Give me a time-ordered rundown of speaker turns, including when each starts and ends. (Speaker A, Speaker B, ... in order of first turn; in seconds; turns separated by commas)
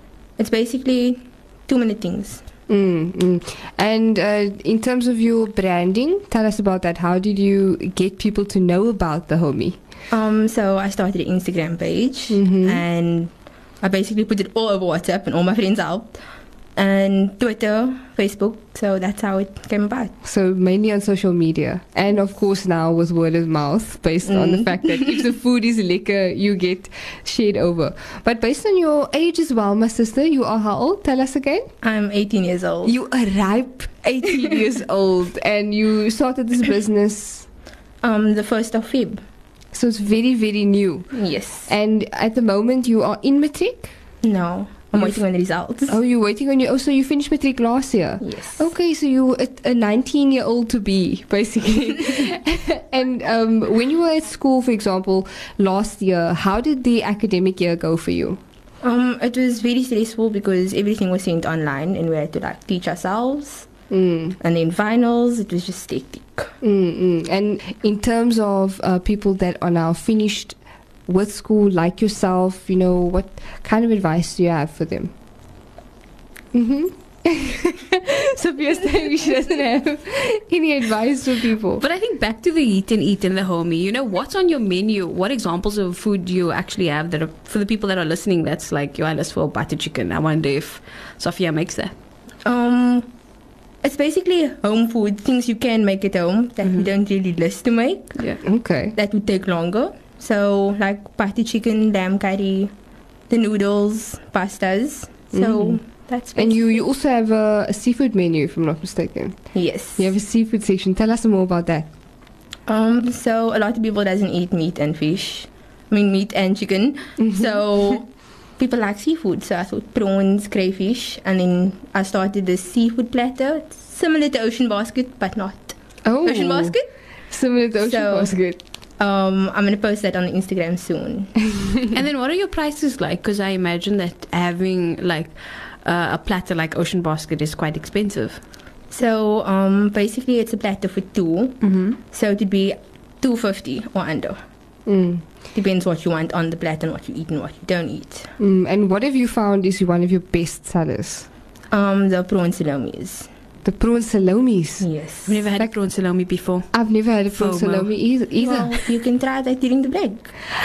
Speaker A: 0.4-2.4, Speaker B: 2.7-9.8, Speaker A: 10.1-16.2, Speaker B: 12.3-12.8, Speaker A: 16.8-20.1, Speaker B: 20.2-31.7, Speaker A: 24.2-25.2, Speaker A: 31.8-33.0, Speaker B: 32.8-37.5, Speaker A: 38.0-39.2, Speaker B: 39.7-41.1, Speaker A: 41.1-41.7, Speaker B: 41.7-43.9, Speaker A: 44.2-46.0, Speaker B: 45.9-58.4, Speaker A: 48.2-48.7, Speaker A: 58.8-63.7, Speaker B: 63.9-64.4, Speaker A: 64.4-66.5, Speaker B: 66.6-75.1, Speaker B: 76.5-81.8, Speaker C: 81.8-91.9, Speaker A: 92.4-93.1, Speaker A: 93.8-98.1, Speaker C: 98.2-98.4, Speaker B: 98.4-98.9, Speaker A: 98.9-102.7, Speaker A: 103.3-106.8, Speaker B: 105.3-105.8, Speaker B: 106.4-109.4, Speaker A: 109.5-110.1, Speaker B: 110.0-111.9, Speaker A: 112.7-118.1, Speaker B: 117.2-117.6, Speaker A: 118.6-126.9, Speaker B: 126.0-126.8, Speaker B: 127.3-128.6, Speaker A: 127.8-128.3, Speaker A: 129.0-131.3, Speaker C: 131.9-138.4, Speaker A: 138.9-144.4, Speaker C: 141.6-142.0, Speaker B: 144.9-145.2, Speaker A: 145.5-148.3, Speaker B: 148.4-151.3, Speaker A: 151.7-153.3, Speaker B: 153.6-154.9, Speaker A: 154.8-155.4, Speaker C: 155.3-156.7, Speaker B: 156.7-158.8, Speaker C: 157.4-157.9, Speaker A: 158.3-160.3